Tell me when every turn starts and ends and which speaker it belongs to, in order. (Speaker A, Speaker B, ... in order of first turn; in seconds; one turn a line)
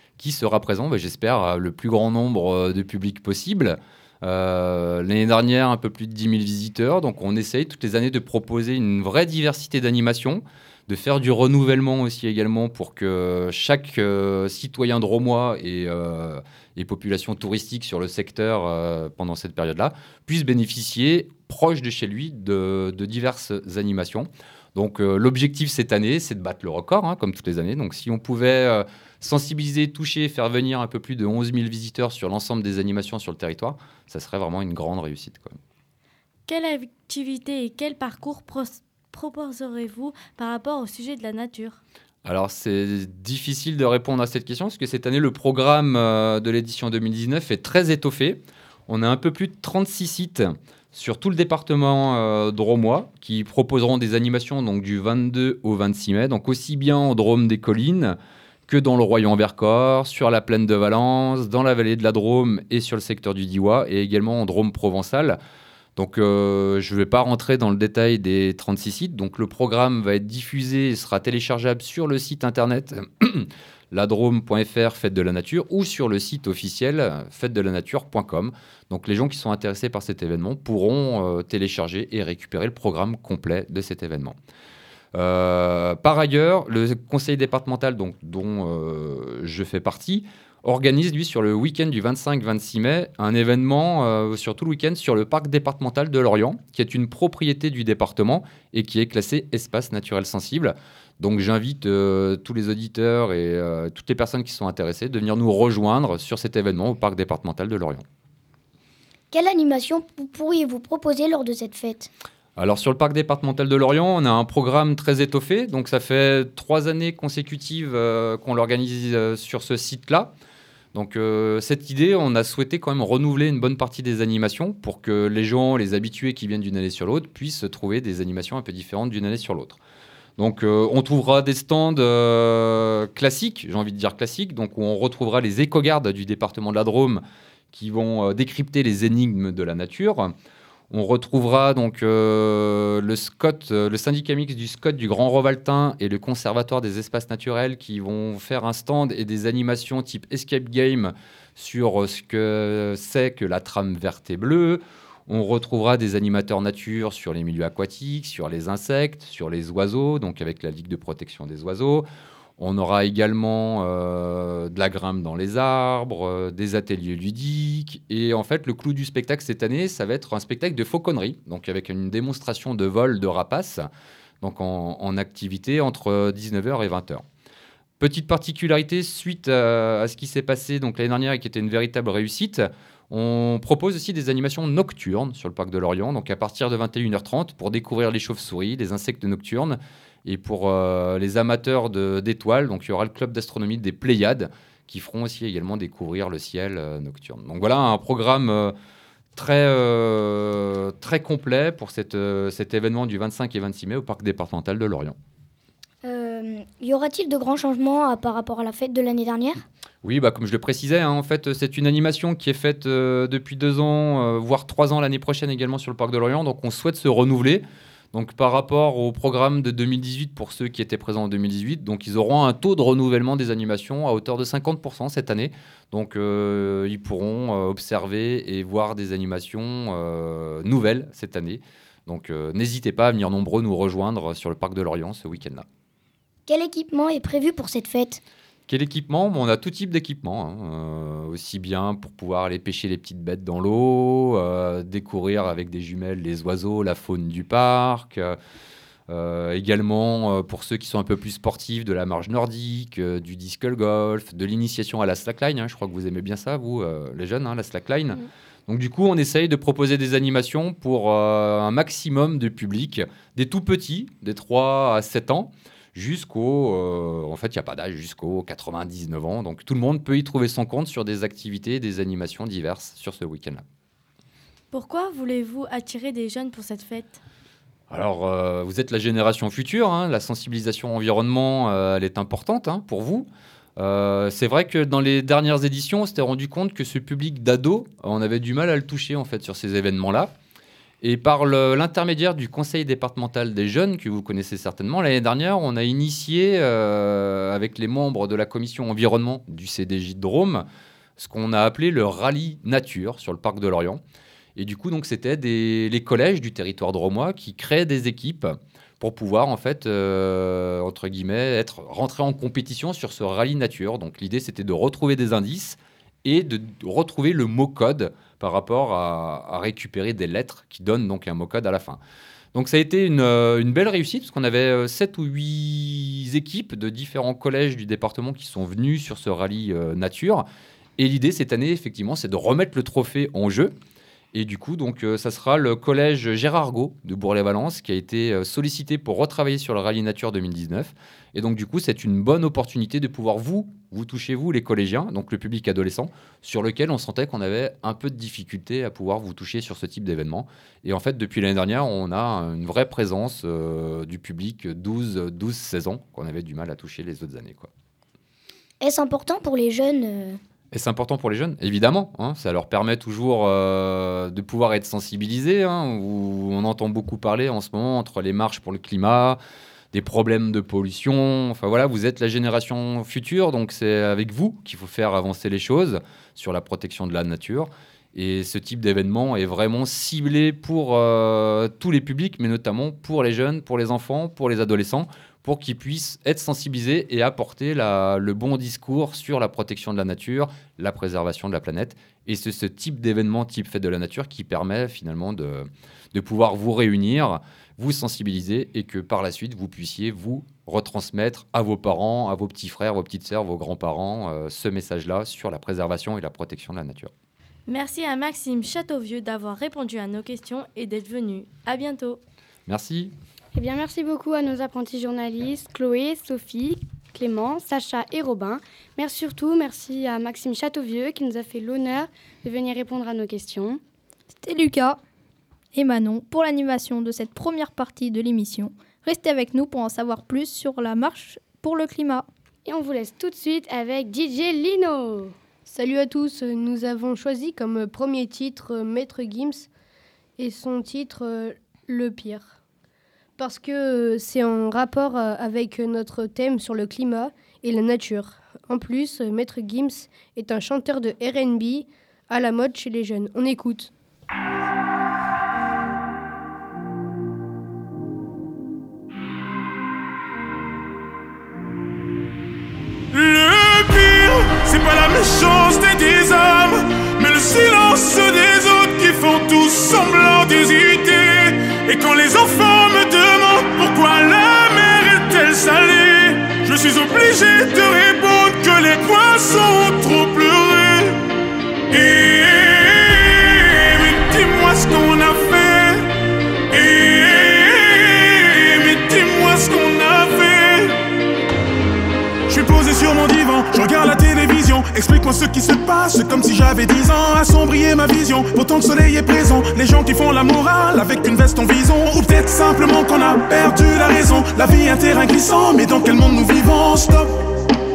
Speaker A: 0.2-35.6
Speaker B: 36.5-41.8
Speaker A: 42.2-65.4
Speaker A: 66.0-84.4
Speaker A: 85.1-108.0
Speaker C: 109.3-112.1
Speaker A: 112.6-120.3
Speaker A: 120.9-129.8
Speaker A: 130.4-140.3
Speaker A: 140.9-162.1
Speaker A: 162.6-173.9
Speaker A: 174.4-177.2
Speaker A: 178.0-198.8
Speaker A: 199.4-205.2
Speaker C: 206.0-209.6
Speaker A: 210.0-235.7
Speaker C: 236.5-238.2
Speaker A: 238.7-248.4
Speaker A: 249.1-273.6
Speaker B: 274.7-277.2
Speaker A: 277.9-290.3
Speaker A: 291.0-300.6
Speaker A: 301.2-304.0
Speaker A: 304.6-322.0
Speaker A: 322.5-333.7
Speaker A: 334.3-357.7
Speaker C: 358.8-360.4
Speaker A: 360.7-369.4
Speaker A: 369.9-407.1
Speaker B: 407.7-412.2
Speaker A: 412.7-413.1
Speaker D: 413.5-423.8
Speaker E: 424.4-425.0
Speaker E: 425.7-432.2
Speaker D: 432.6-435.3
Speaker F: 435.6-439.7
Speaker F: 440.4-442.6
Speaker F: 443.4-453.9
Speaker G: 463.1-481.2
Speaker G: 481.9-486.1
Speaker G: 486.7-491.0
Speaker G: 492.5-507.4